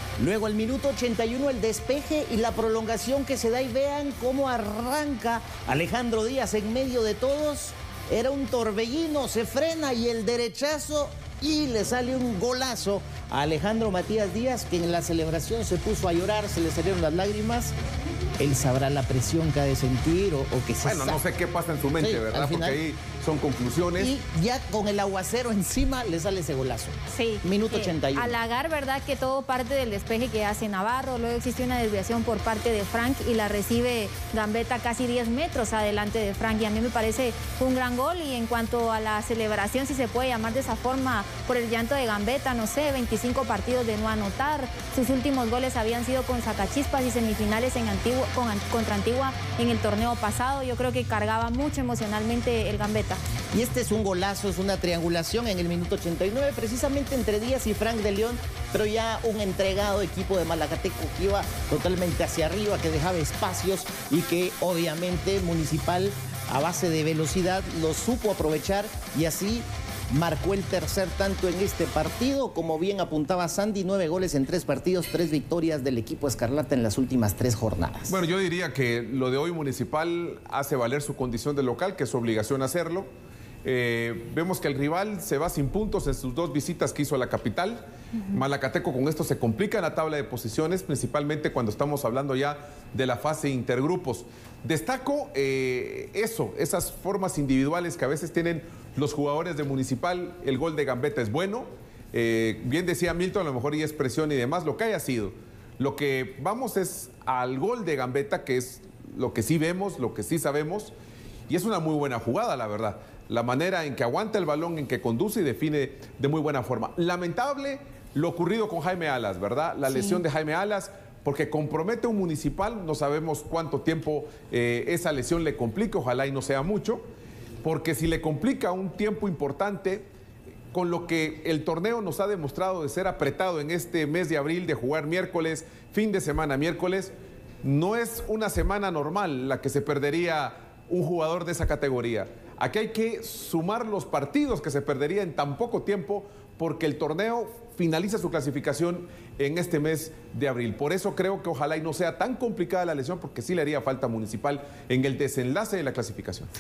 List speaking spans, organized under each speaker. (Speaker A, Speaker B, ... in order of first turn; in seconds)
Speaker A: 0.2-17.7, 18.4-21.2, 22.0-22.8, 24.0-28.4, 53.5-78.2
Speaker B: 20.8-24.1, 78.1-83.1, 83.6-110.9, 111.5-127.0, 127.6-130.1, 130.7-156.5
Speaker C: 27.1-53.2, 119.9-120.2